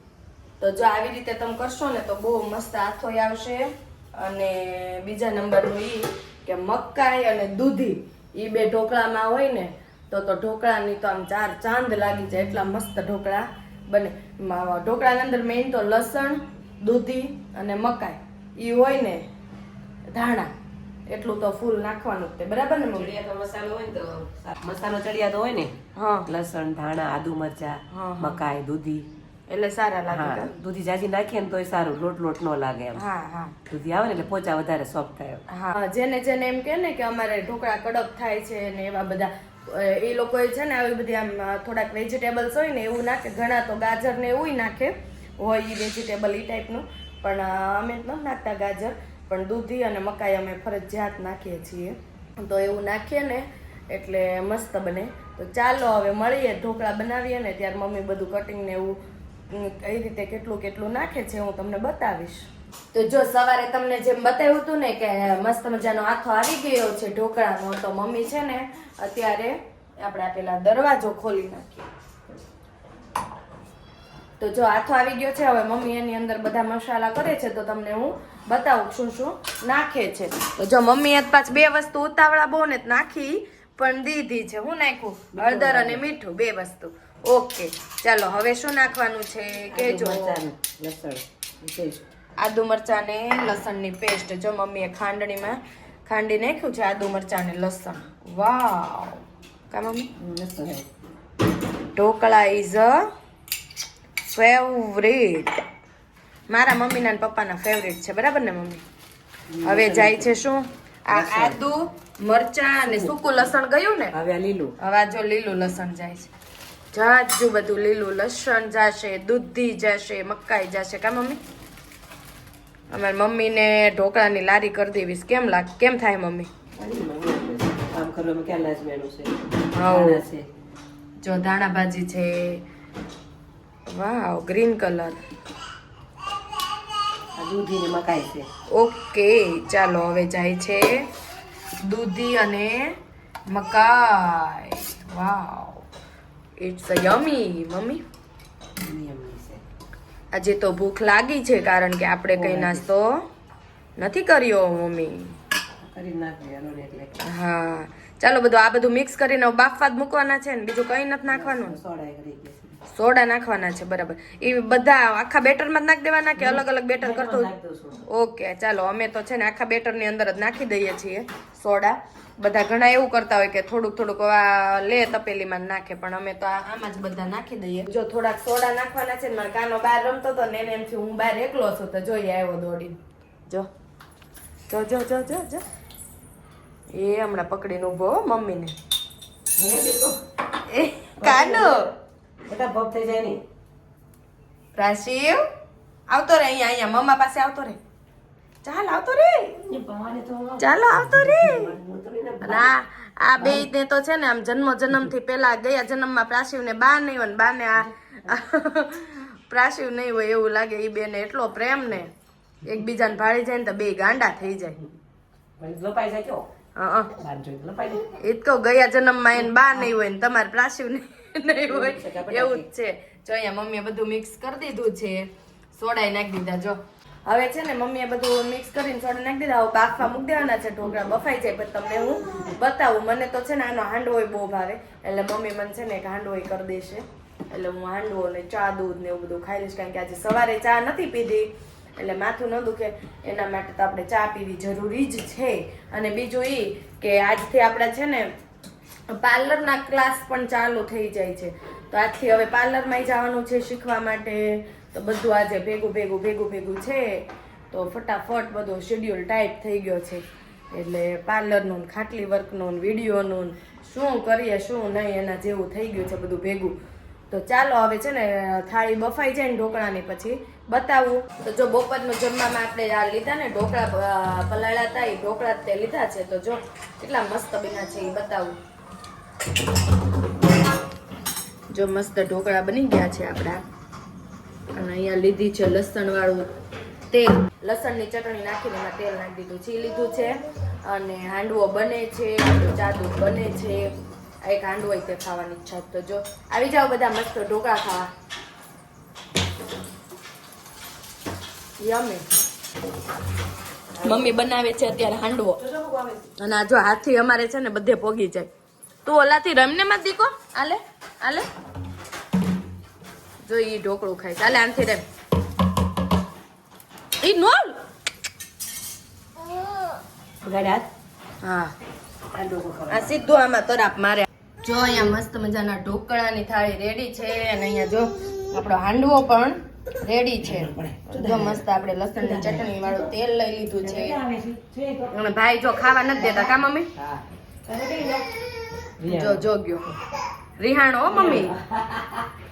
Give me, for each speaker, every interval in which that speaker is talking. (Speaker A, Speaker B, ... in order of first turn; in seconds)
Speaker A: 0.6-19.3, 20.1-20.5, 21.1-23.1, 26.0-26.3, 27.9-28.4, 29.5-30.5, 33.0-33.6, 35.5-59.0, 59.5-71.9, 74.4-90.4, 92.4-100.1, 102.0-103.1, 104.3-105.6, 106.5-108.8, 109.7-114.2, 114.8-116.3, 116.9-121.4, 122.9-126.5, 129.7-130.2, 131.2-132.6, 133.9-135.2, 138.7-141.1, 141.8-143.0, 143.5-145.8, 146.6-148.0, 150.3-153.2, 154.0-155.4, 157.2-161.8, 162.9-167.5, 168.1-183.7, 184.7-185.6, 186.9-188.7, 190.7-191.9, 194.8-195.4, 196.1-197.8, 198.6-199.6, 200.6-201.7, 202.4-212.1, 212.6-214.8, 216.8-217.1, 218.2-248.3, 249.1-266.8, 267.3-278.6, 281.7-283.6, 284.7-286.5, 287.1-290.3, 290.9-293.9, 294.4-298.1, 301.8-302.2, 304.0-305.6, 306.4-308.5, 309.1-311.5, 313.4-315.0, 317.2-317.8, 321.4-321.7, 322.9-334.2, 335.1-336.9, 339.1-339.9, 340.6-341.6
Speaker B: 22.9-29.1, 30.1-33.0, 33.7-35.4, 85.3-86.0, 89.7-92.1, 100.2-100.9, 109.5-110.3, 111.1-111.6, 112.9-113.1, 114.1-114.7, 126.8-130.5, 137.4-138.5, 148.8-149.6, 152.3-152.9, 155.8-157.2, 161.3-162.8, 166.4-168.0, 189.5-190.2, 191.2-191.9, 192.5-193.4, 199.7-202.7, 203.4-203.7, 215.6-216.5, 217.2-218.1, 221.7-222.7, 304.0-304.4, 305.6-306.3, 320.4-320.9, 322.3-323.2, 330.4-333.1, 333.8-335.2, 336.2-338.2, 339.0-339.5, 341.1-342.3